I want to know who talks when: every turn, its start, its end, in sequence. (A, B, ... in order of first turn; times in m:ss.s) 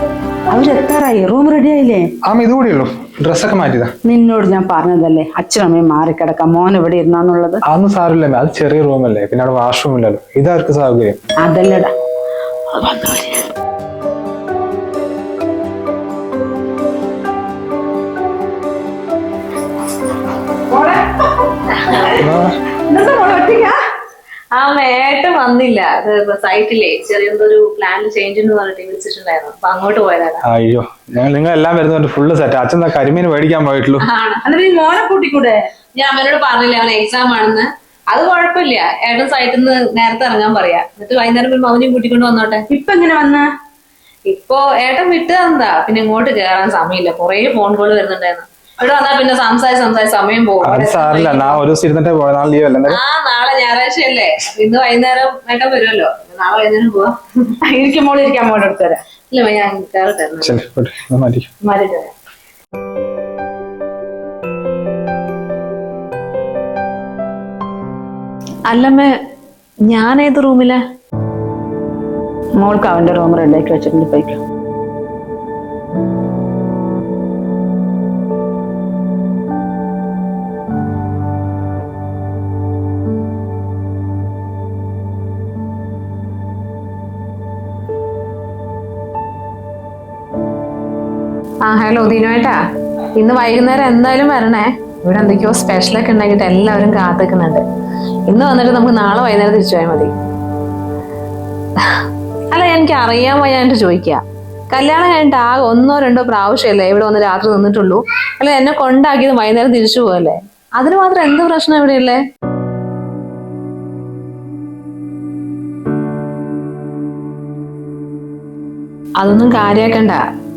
0:00.5-0:02.0 A
0:02.3-0:03.9 B
0:04.0-0:07.6 A
0:07.7-0:11.2 B
0:11.4-0:11.9 A
0:12.7-0:13.5 A
0:21.7-0:22.1 C
0:22.1-0:22.5 B
0:22.9-0:23.8 C
0:24.5-0:30.4 C
0:30.4-0:34.0 B
0:34.0-0:34.4 C
0:34.4-0:35.6 A
0:36.0-0:42.6 C
0:42.7-0:43.5 A
0:44.3-0:51.6 C
0:50.6-0:53.0 B
0:52.9-0:57.1 C
0:57.7-0:59.0 A
0:59.3-1:00.6 C
1:00.4-1:01.5 B
1:01.6-1:02.1 C
1:08.7-1:09.1 C
1:09.9-1:10.8 C
1:12.6-1:14.4 A
1:31.6-1:32.6 C
1:33.2-1:37.6 C
1:38.3-1:40.1 C
1:41.8-1:52.2 C
1:59.2-2:00.2 C